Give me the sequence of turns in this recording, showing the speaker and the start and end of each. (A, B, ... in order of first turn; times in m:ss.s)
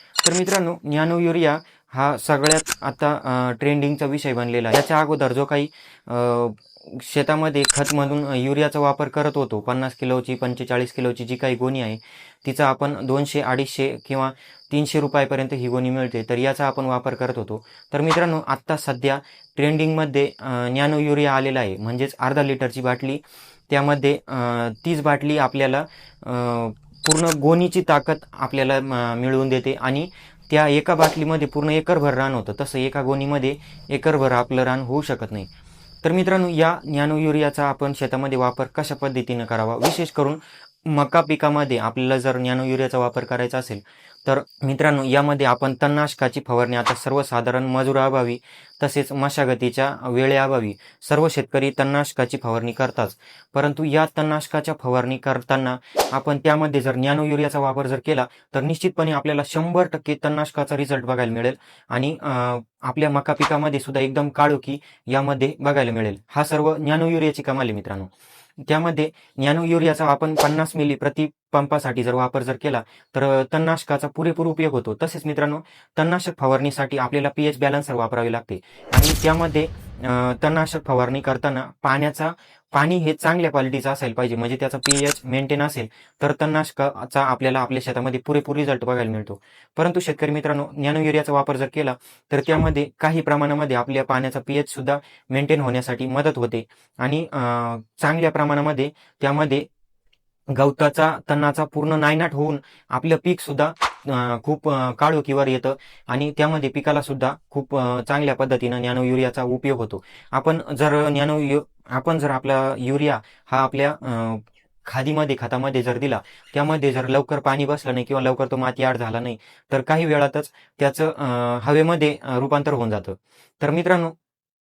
0:00.2-0:35.5 A
0:36.0-1:08.1 A
1:08.7-1:39.7 A
1:40.5-2:04.2 A